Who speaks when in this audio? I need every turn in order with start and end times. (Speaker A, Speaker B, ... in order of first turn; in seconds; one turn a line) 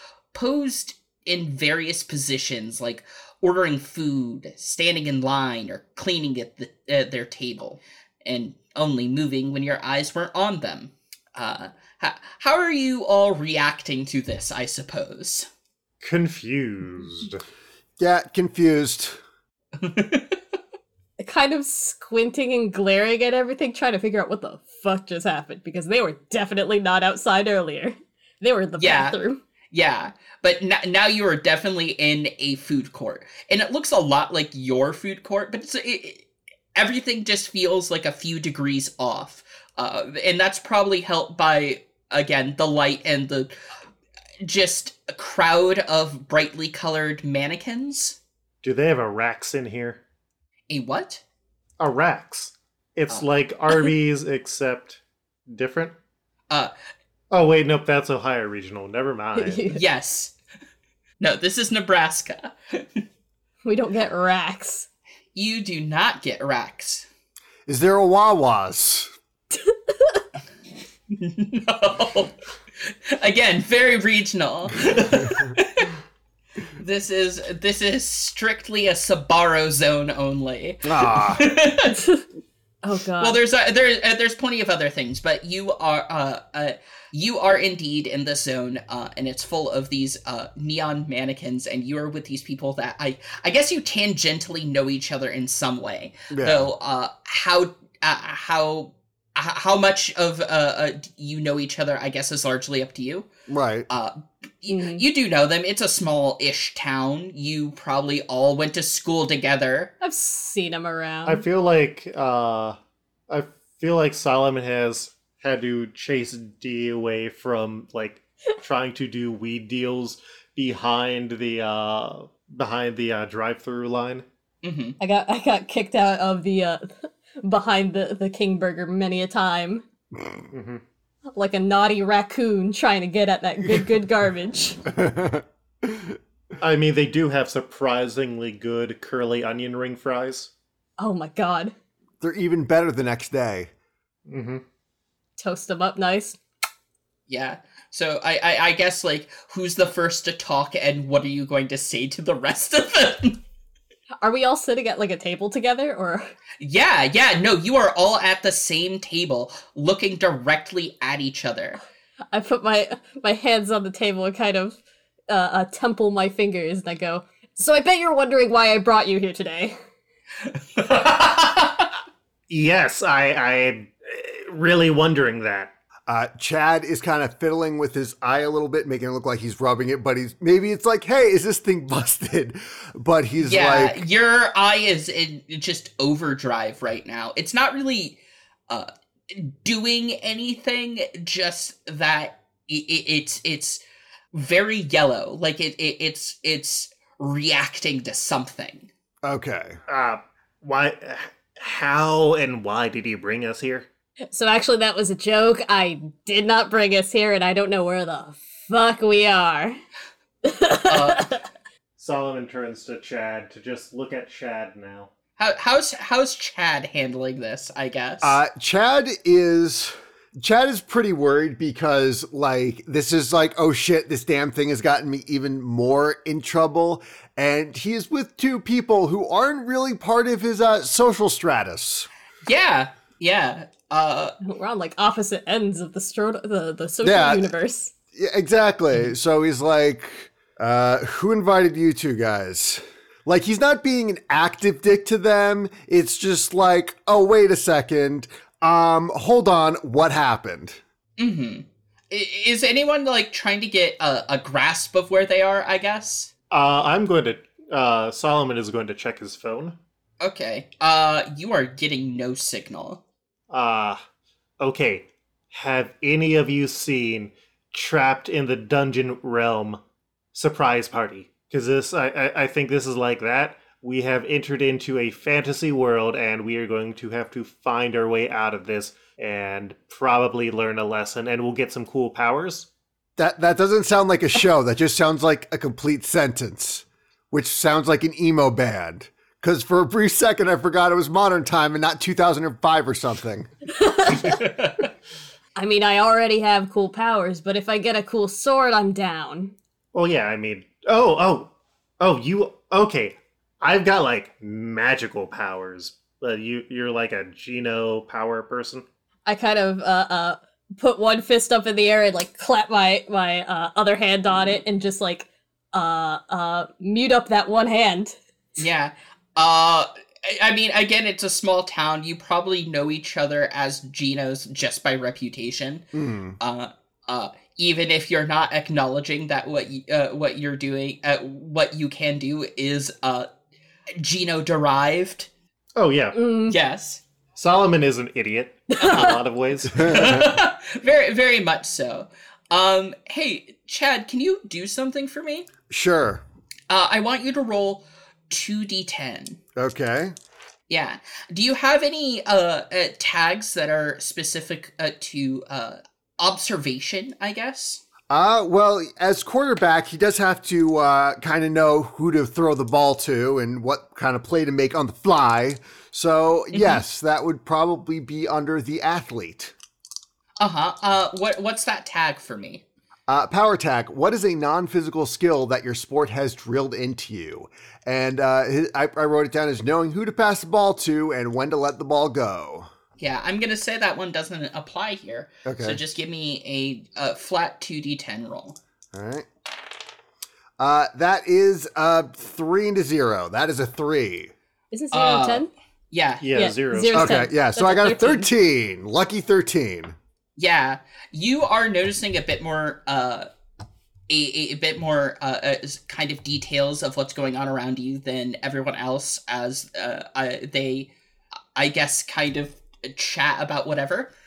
Speaker A: 0.3-15.5
Speaker B: 16.0-17.4
Speaker C: 18.0-19.2
Speaker A: 19.8-20.4
Speaker D: 21.2-29.4
Speaker A: 28.8-29.2
Speaker A: 29.7-43.5
Speaker A: 44.4-48.2
Speaker B: 48.6-50.0
Speaker A: 50.7-51.2
Speaker B: 51.8-56.0
Speaker B: 57.3-59.6
Speaker D: 59.4-59.8
Speaker A: 59.7-60.3
Speaker A: 61.2-63.0
Speaker D: 63.6-64.9
Speaker A: 65.3-67.1
Speaker C: 67.7-69.1
Speaker D: 69.5-70.2
Speaker A: 71.1-76.0
Speaker A: 76.7-82.0
Speaker C: 80.8-81.5
Speaker D: 81.9-82.2
Speaker D: 82.8-83.4
Speaker A: 83.2-103.3
Speaker C: 96.3-96.7
Speaker C: 103.5-103.9
Speaker A: 103.9-109.9
Speaker D: 104.7-105.0
Speaker D: 110.0-111.4
Speaker B: 111.2-112.8
Speaker B: 113.3-124.2
Speaker A: 124.6-125.0
Speaker D: 125.0-129.8
Speaker B: 130.5-130.8
Speaker D: 131.3-134.8
Speaker C: 134.9-136.2
Speaker B: 136.6-140.5
Speaker D: 141.0-141.7
Speaker C: 142.2-143.7
Speaker B: 144.3-144.6
Speaker D: 145.4-146.4
Speaker A: 147.3-153.4
Speaker D: 154.2-156.3
Speaker A: 156.6-161.8
Speaker D: 162.3-169.8
Speaker A: 170.7-171.9
Speaker B: 172.5-175.7
Speaker C: 176.1-184.0
Speaker A: 183.4-193.8
Speaker A: 194.3-198.9
Speaker C: 199.2-199.8
Speaker B: 199.9-203.9
Speaker D: 204.3-209.8
Speaker D: 210.4-211.5
Speaker A: 210.9-211.3
Speaker B: 212.0-215.1
Speaker A: 215.4-218.4
Speaker C: 218.2-232.1
Speaker A: 232.4-234.3
Speaker D: 234.4-237.9
Speaker C: 237.0-237.5
Speaker C: 238.1-250.8
Speaker A: 251.2-256.3
Speaker B: 256.5-259.8
Speaker A: 260.2-263.0
Speaker B: 263.5-264.0
Speaker B: 264.6-269.8
Speaker B: 270.3-282.7
Speaker C: 283.2-293.5
Speaker D: 293.8-294.4
Speaker A: 294.1-294.9
Speaker D: 295.6-299.5
Speaker B: 299.9-308.9
Speaker D: 309.3-318.2
Speaker A: 318.6-325.8
Speaker C: 325.9-326.4
Speaker A: 326.4-333.3
Speaker A: 334.0-335.3
Speaker B: 335.8-336.2
Speaker D: 336.1-336.6
Speaker A: 336.5-337.0
Speaker B: 337.4-339.9
Speaker D: 338.8-339.2
Speaker A: 338.8-339.2
Speaker A: 339.7-345.5
Speaker C: 339.8-340.2
Speaker C: 345.7-346.2
Speaker A: 346.7-349.4
Speaker C: 349.6-350.1
Speaker A: 350.7-357.8
Speaker C: 358.1-369.6
Speaker A: 366.5-366.8
Speaker A: 370.4-372.6
Speaker C: 373.1-382.7
Speaker A: 383.0-388.6
Speaker C: 385.4-385.8
Speaker C: 388.9-389.3
Speaker C: 390.6-394.3
Speaker D: 394.7-395.5
Speaker A: 394.9-396.3
Speaker B: 396.2-397.2
Speaker D: 396.3-398.3
Speaker C: 396.9-400.0
Speaker A: 400.4-403.3
Speaker A: 404.1-410.9
Speaker A: 411.6-414.1